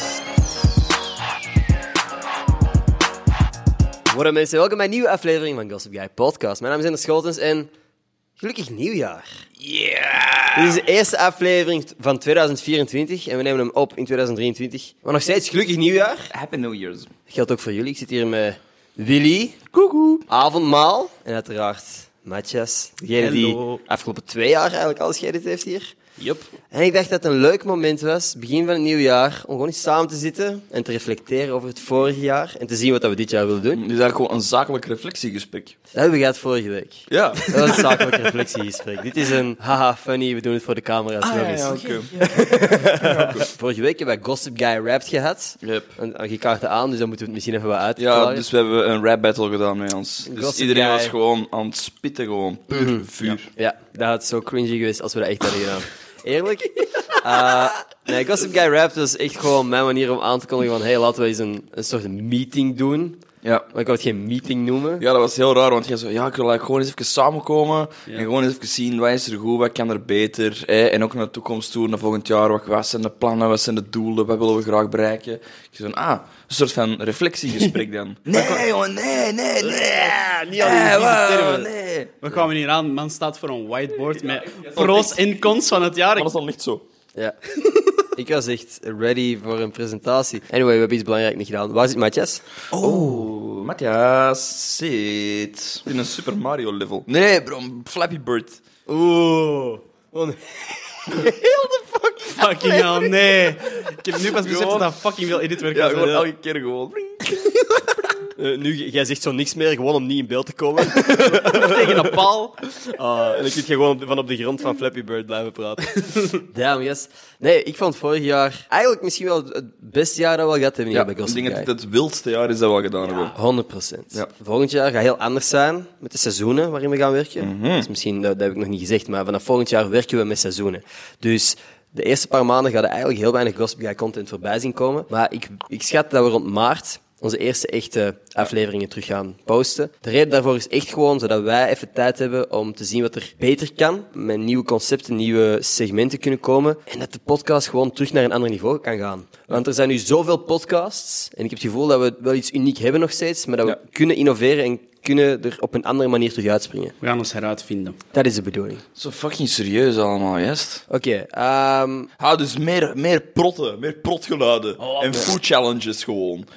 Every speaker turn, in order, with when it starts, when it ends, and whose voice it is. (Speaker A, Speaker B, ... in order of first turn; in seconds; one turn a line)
Speaker A: 4.1-7.7
Speaker A: 8.4-9.2
Speaker B: 9.6-10.8
Speaker A: 10.5-16.3
Speaker B: 16.3-17.1
Speaker A: 17.3-19.6
Speaker B: 19.7-20.2
Speaker A: 20.3-25.9
Speaker C: 23.2-23.8
Speaker C: 26.2-26.5
Speaker A: 26.7-33.8
Speaker B: 33.7-35.8
Speaker A: 35.9-48.4
Speaker B: 37.1-38.1
Speaker B: 41.2-42.2
Speaker B: 42.9-43.5
Speaker B: 45.6-45.9
Speaker B: 48.0-53.5
Speaker A: 50.3-51.1
Speaker A: 52.7-63.2
Speaker B: 63.4-63.7
Speaker A: 63.7-65.0
Speaker B: 65.0-82.2
Speaker A: 78.3-78.6
Speaker A: 79.6-81.7
Speaker C: 82.2-86.3
Speaker B: 84.0-85.4
Speaker B: 86.1-86.8
Speaker A: 88.0-92.4
Speaker B: 92.7-98.6
Speaker A: 98.9-103.4
Speaker C: 102.2-106.3
Speaker B: 104.3-105.0
Speaker B: 105.6-107.5
Speaker A: 108.3-121.7
Speaker C: 111.1-112.6
Speaker B: 120.9-123.3
Speaker A: 123.2-156.9
Speaker B: 127.4-127.9
Speaker C: 157.0-158.0
Speaker A: 158.1-158.8
Speaker B: 158.9-160.8
Speaker A: 160.9-162.1
Speaker B: 162.2-166.5
Speaker C: 164.8-165.3